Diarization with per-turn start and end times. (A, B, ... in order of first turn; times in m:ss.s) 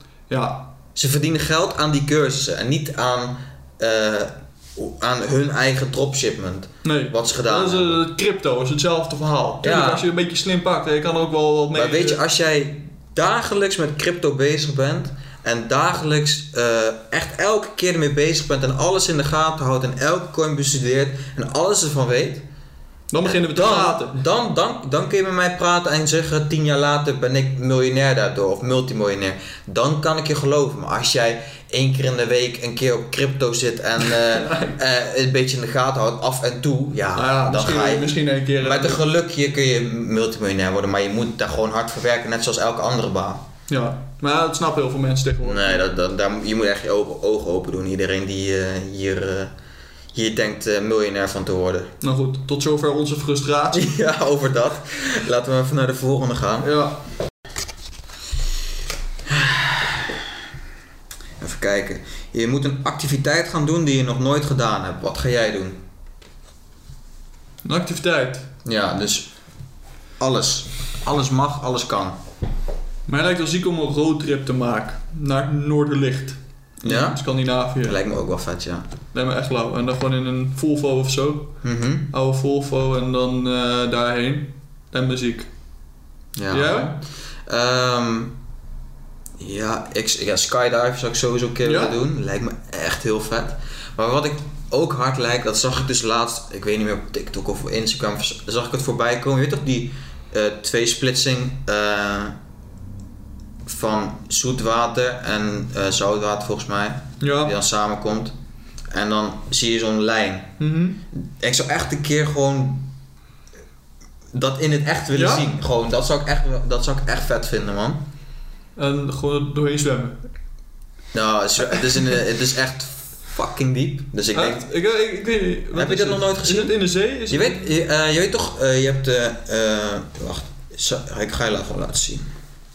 0:00.3-0:00.6 A
0:00.9-0:08.0 B
0:06.8-0:12.2 A
0:09.6-0:10.0 B
0:11.7-0:22.4 B
0:23.1-0:24.2 A
0:23.2-0:43.5 B
0:34.0-0:34.8 A
0:37.1-0:39.0 A
0:43.7-0:45.8 A
0:45.4-0:49.5 B
0:50.1-0:51.9 B
0:52.0-0:54.0 A
0:53.7-0:56.7 B
0:56.6-0:57.0 A
0:59.3-1:00.1 B
1:01.4-1:05.8 B
1:07.6-1:08.5 A
1:08.6-1:09.3 B
1:10.2-1:12.2 B
1:13.1-1:18.0 A
1:16.8-1:17.2 B
1:17.8-1:18.9 B
1:19.1-1:21.6 A
1:21.6-1:22.1 B
1:22.1-1:25.5 A
1:26.4-1:28.4 B
1:26.5-1:27.0 A
1:29.4-1:42.4 B
1:31.6-1:32.0 A
1:43.6-1:48.3 B
1:47.2-1:47.5 A
1:48.9-1:50.5 B
1:50.6-1:51.0 A
1:51.1-1:52.9 B
1:54.3-1:58.0 B
1:55.1-1:55.5 A
1:58.8-2:00.2 A
2:01.1-2:04.6 B
2:04.3-2:07.7 A
2:05.7-2:06.8 B
2:07.3-2:12.3 B